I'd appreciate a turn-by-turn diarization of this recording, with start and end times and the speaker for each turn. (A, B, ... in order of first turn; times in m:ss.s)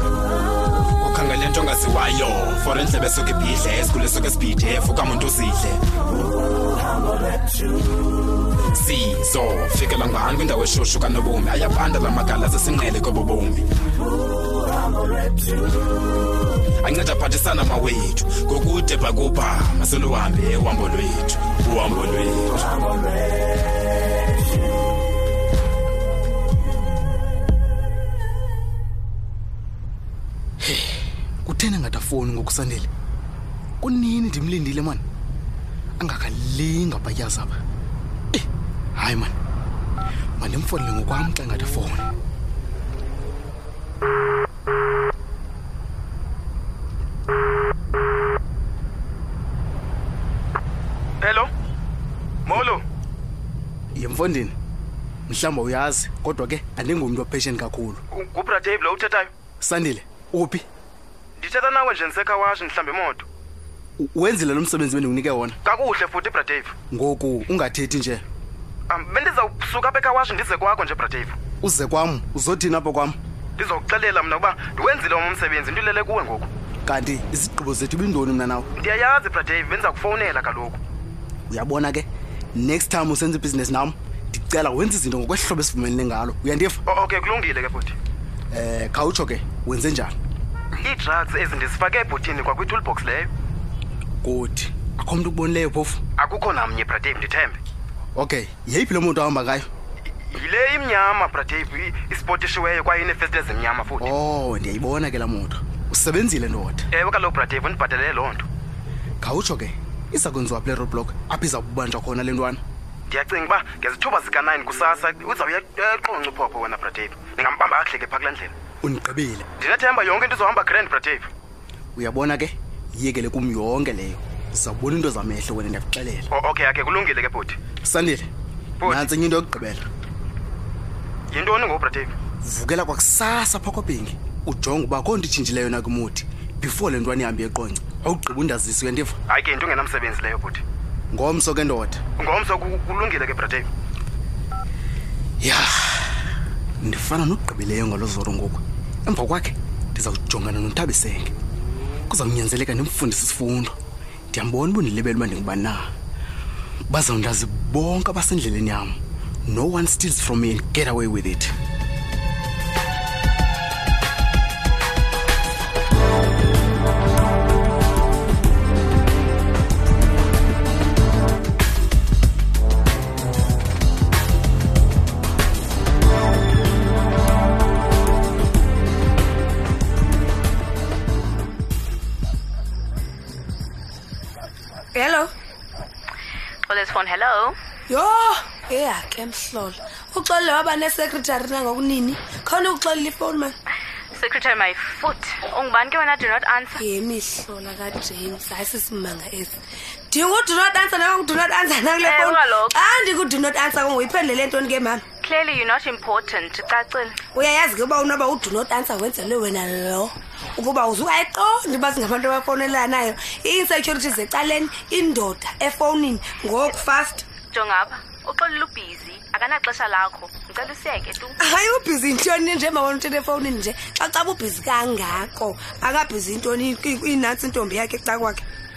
0:01.0-0:05.8 A
0:08.7-0:13.7 A
0:16.8-0:22.8 A
0:30.6-0:32.9 B
0:33.8-0:35.0 B
0:36.0-0:37.6 B
0:38.3-0:39.3 B
0:40.4-0:42.1 B
0:51.2-0:51.5 C
0:52.5-0:52.8 C
0:54.0-0:54.5 B
0:55.3-0:58.0 B
0:58.1-0:59.3 C
0:59.6-1:00.6 B
1:01.4-1:03.3 C
1:04.0-1:05.6 B
1:05.6-1:06.8 C
1:06.9-1:08.2 B
1:08.9-1:11.4 C
1:11.6-1:13.2 B
1:13.6-1:16.5 C
1:16.9-1:18.7 B
1:18.8-1:20.8 C
1:21.5-1:26.8 B
1:26.9-1:28.0 C
1:28.5-1:30.2 B
1:30.8-1:33.3 C
1:34.2-1:36.0 B
1:36.2-1:37.6 C
1:38.2-1:39.7 B
1:40.3-1:44.2 C
1:44.0-1:46.9 B
1:46.9-1:48.5 C
1:49.2-1:52.6 B
1:53.1-1:58.5 C
1:58.8-1:59.5 B
1:59.6-2:01.3 C
2:02.0-2:06.3 B
2:06.3-2:07.6 C
2:07.8-2:08.3 B
2:08.8-2:09.1 C
2:08.8-2:09.9 B
2:11.3-2:12.1 C
2:12.4-2:19.2 B
2:19.3-2:20.6 C
2:21.1-2:22.0 B
2:22.2-2:23.7 C
2:25.4-2:26.1 B
2:26.8-2:31.3 B
2:32.1-2:33.7 B
2:34.3-2:35.9 B
2:36.9-2:41.5 B
3:04.9-3:05.3 D
3:06.7-3:07.6 E
3:07.9-3:13.6 D
3:14.1-3:16.8 E
3:16.8-3:19.6 D
3:20.1-3:25.0 D
3:22.0-3:22.8 E
3:25.2-3:27.2 E
3:27.3-3:37.3 D
3:37.5-3:41.4 E
3:41.4-3:48.5 D